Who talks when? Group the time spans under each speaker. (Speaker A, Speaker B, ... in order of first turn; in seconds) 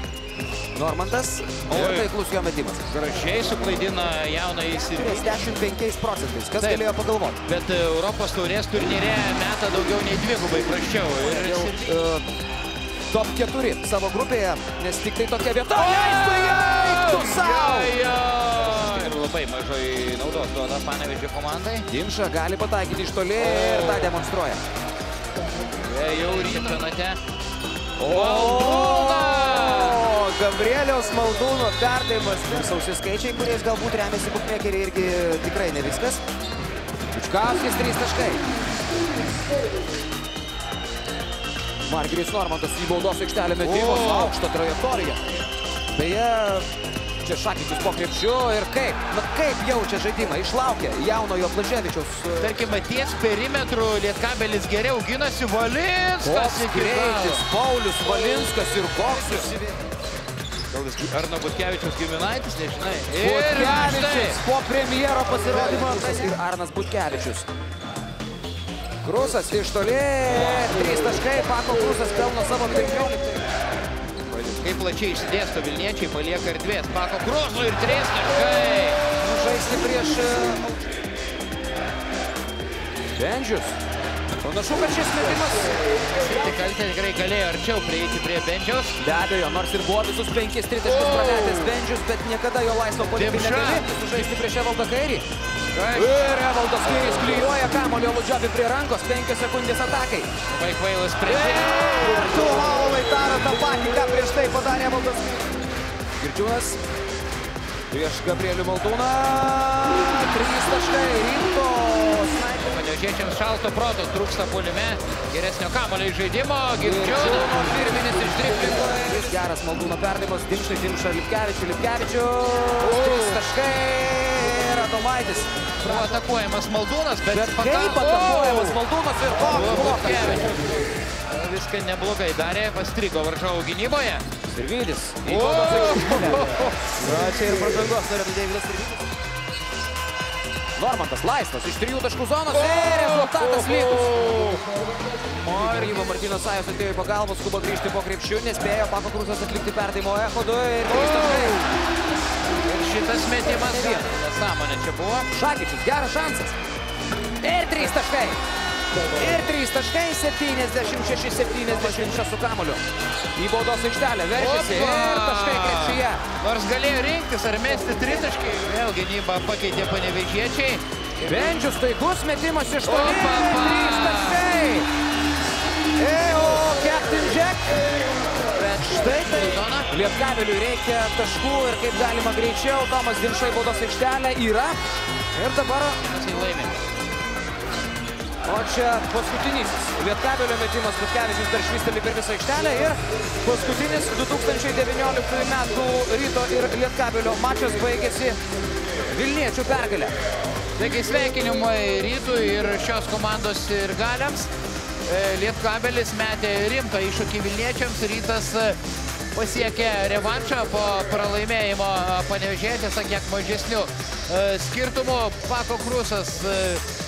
Speaker A: 0.7-2.8, 4.9-7.4, 11.2-12.2, 13.1-17.9, 21.9-24.6, 28.0-36.2, 37.1-38.4, 41.9-45.2, 45.9-46.7, 47.2-52.6, 56.2-59.7, 63.2-67.5, 69.0-73.4, 79.1-80.9, 83.2-83.8, 84.4-85.8, 89.0-95.2, 95.8-100.3, 101.3-105.4, 106.2-106.8, 107.9-112.8, 116.8-126.2, 127.3-130.5, 134.5-139.0, 140.8-144.4, 145.4-151.7, 153.6-154.1, 155.3-156.5, 157.4-158.4, 159.1-162.8, 163.3-166.2, 171.2-174.9, 176.0-177.8, 178.8-184.8, 185.3-186.0, 188.4-198.4, 199.1-200.1
Speaker B: 1.7-2.1, 2.9-5.4, 6.6-6.9, 7.5-11.9, 15.7-21.9, 23.4-24.1, 25.8-27.2, 28.0-30.1, 43.6-44.4, 52.4-57.5, 60.7-64.4, 74.3-79.0, 86.2-88.9, 90.8-91.7, 93.2-93.9, 95.7-96.2, 100.5-102.3, 112.6-118.8, 122.8-123.4, 125.8-128.8, 129.4-130.6, 131.3-134.2, 135.2-136.6, 143.0-144.5, 145.4-146.0, 150.9-151.7, 152.6-155.3, 164.3-170.8, 172.8-174.5, 178.5-179.9, 186.0-186.7, 200.8-204.5, 205.1-208.8, 209.3-216.8